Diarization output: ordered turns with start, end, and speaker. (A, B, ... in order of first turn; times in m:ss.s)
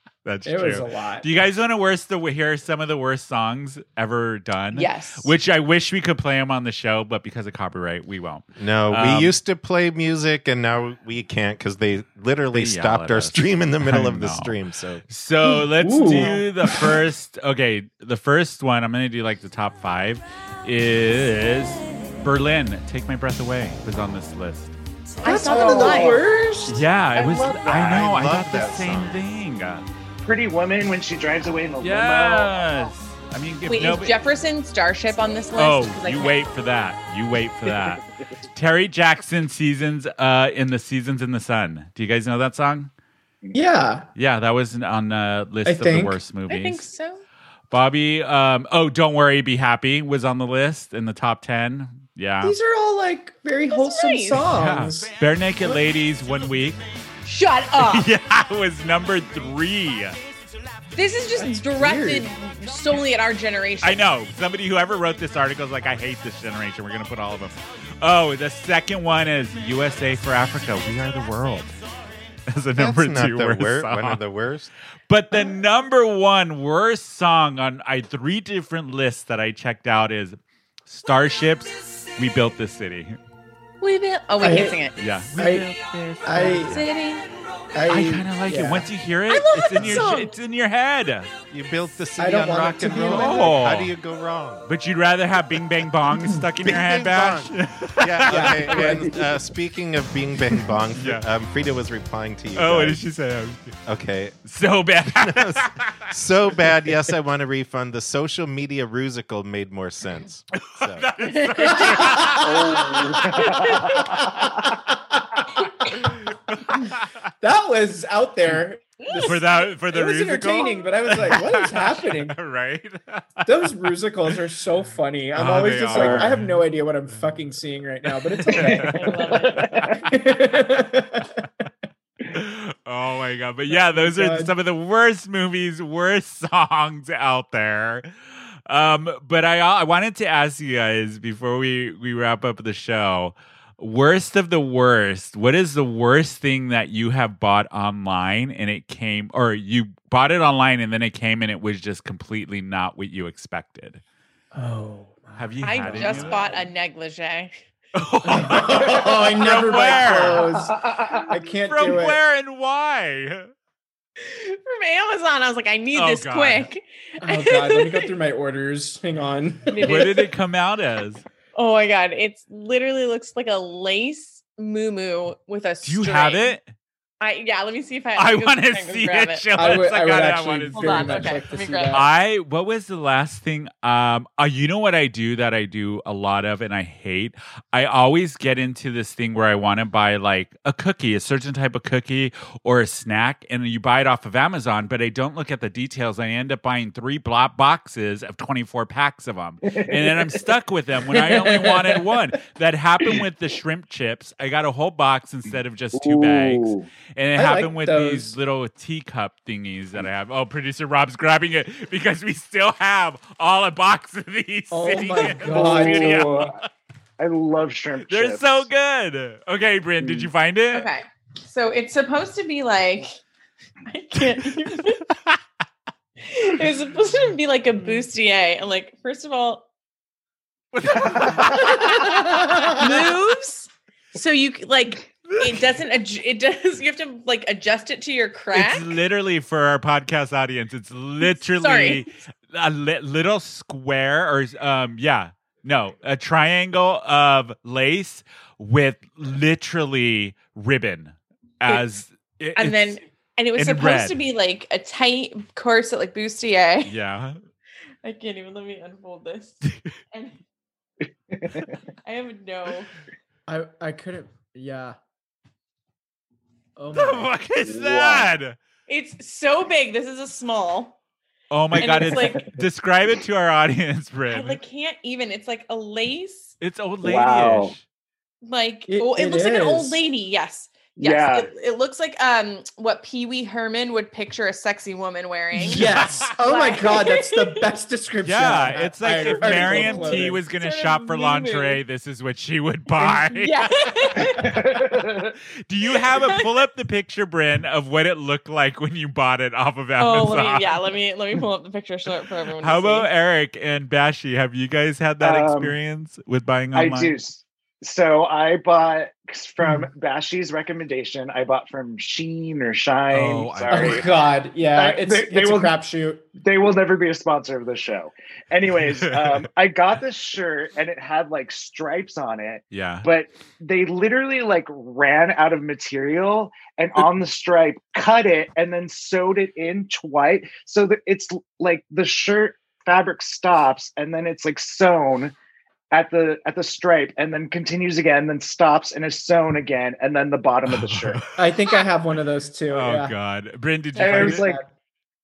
0:00.2-0:09.4 A
0:00.5-0:01.3 B
0:04.7-0:05.3 C
0:08.6-0:15.1 D
0:12.5-0:14.6 A
0:15.1-0:24.8 A
0:15.4-0:17.0 B
0:25.2-0:26.2 C
0:25.2-0:26.8 B
0:25.4-0:26.2 E
0:26.7-0:29.9 A
0:27.2-0:28.0 E
0:27.7-0:29.2 D
0:30.2-0:32.7 E
0:31.8-0:34.1 A
0:33.7-0:36.4 C
0:35.6-0:42.9 A
0:43.5-0:44.1 B
0:44.2-0:46.9 A
0:45.6-0:46.2 B
0:46.5-0:47.2 C
0:47.7-0:52.6 A
0:52.4-0:55.1 B
0:53.7-0:54.4 C
0:54.4-0:56.8 A
0:57.2-0:58.1 C
0:57.8-1:00.2 A
1:00.9-1:04.1 C
1:01.4-1:02.3 B
1:03.8-1:11.8 A
1:12.5-1:14.2 A
1:12.8-1:14.7 D
1:15.1-1:23.2 A
1:23.8-1:25.2 C
1:24.4-1:24.8 B
1:25.0-1:26.8 A
1:25.4-1:25.7 B
1:26.2-1:26.8 B
1:26.6-1:27.3 C
1:27.7-1:28.9 B
1:27.9-1:31.3 A
1:29.3-1:30.3 C
1:31.5-1:34.7 D
1:32.2-1:33.6 B
1:33.0-1:33.9 A
1:34.7-1:39.0 A
1:36.6-1:43.0 D
1:38.3-1:39.2 B
1:41.0-1:41.2 A
1:42.6-1:43.8 A
1:43.9-1:44.4 D
1:44.4-1:46.1 A
1:45.2-1:51.1 D
1:50.6-1:53.0 A
1:51.2-1:52.3 C
1:51.7-1:52.9 B
1:52.4-1:54.7 E
1:53.3-1:54.0 C
1:54.0-1:56.2 B
1:56.3-1:57.1 A
1:57.4-2:02.4 B
1:59.0-1:59.4 C
1:59.2-2:03.7 A
2:03.5-2:09.3 B
2:05.4-2:06.6 A
2:05.9-2:06.3 E
2:08.1-2:10.2 A
2:08.6-2:10.0 E
2:08.8-2:09.8 C
2:09.9-2:11.4 B
2:12.3-2:18.1 A
2:13.7-2:14.5 B
2:18.7-2:34.0 A
2:34.5-2:36.6 B
2:35.4-2:36.5 A
2:35.6-2:37.5 C
2:37.9-2:40.5 A
2:38.2-2:42.2 B
2:40.4-2:41.3 E
2:41.7-2:43.5 A
2:44.2-2:48.1 C
2:45.9-2:46.7 A
2:47.2-2:50.1 B
2:49.7-2:50.3 C
2:49.8-2:51.2 A
2:51.6-2:56.6 C
2:55.8-2:56.7 A
2:57.2-2:59.8 C
2:58.2-3:36.7 A
2:59.5-3:02.1 B
3:00.7-3:02.1 C
3:19.6-3:20.4 E
3:21.2-3:22.0 B
3:25.9-3:26.9 E
3:27.4-3:28.4 B
3:34.7-3:36.3 B
3:35.2-3:36.6 E
3:37.2-3:38.7 E
3:38.1-3:40.9 A
3:40.0-3:40.3 E
3:40.7-3:43.1 C
3:43.9-3:45.1 C
3:45.1-3:45.4 A
3:46.2-3:49.7 C
3:50.7-3:53.0 A
3:51.1-3:59.0 C
3:51.2-3:51.7 E
3:52.0-3:52.8 B
3:55.3-3:55.6 A
3:58.5-4:13.0 A
4:01.2-4:02.1 C
4:12.6-4:16.9 C
4:13.6-4:14.2 A
4:16.8-4:17.4 A
4:18.0-4:20.4 C
4:19.6-4:19.9 A
4:21.3-4:21.8 E
4:22.0-4:22.9 C
4:23.5-4:25.0 B
4:26.8-4:27.3 B
4:26.9-4:28.6 A
4:27.6-4:28.4 E
4:28.9-4:31.0 C
4:31.5-4:34.6 A
4:31.8-4:32.6 E
4:31.8-4:32.4 C
4:34.3-4:36.6 C
4:36.6-4:37.8 A
4:37.0-4:37.7 E
4:38.4-4:47.6 C
4:38.9-4:40.0 B
4:41.0-4:41.5 E
4:45.5-4:50.4 B
4:45.7-4:46.3 A
4:48.2-4:54.3 A
4:49.1-4:51.8 C
4:53.3-4:54.6 C
4:54.2-4:55.4 E
4:55.7-5:00.8 A
4:55.9-4:56.5 C
5:00.0-5:03.1 C
5:02.6-5:07.2 A
5:05.2-5:05.8 E
5:06.7-5:14.1 E
5:09.6-5:09.9 B
5:13.1-5:14.0 A
5:13.7-5:16.3 B
5:14.7-5:15.8 E
5:16.4-5:35.3 E
5:18.9-5:19.5 A
5:22.7-5:23.1 A
5:35.9-5:41.3 E
5:40.7-5:41.3 A
5:41.4-5:43.2 B
5:42.7-5:44.4 A
5:44.0-5:44.7 B
5:44.0-5:44.6 E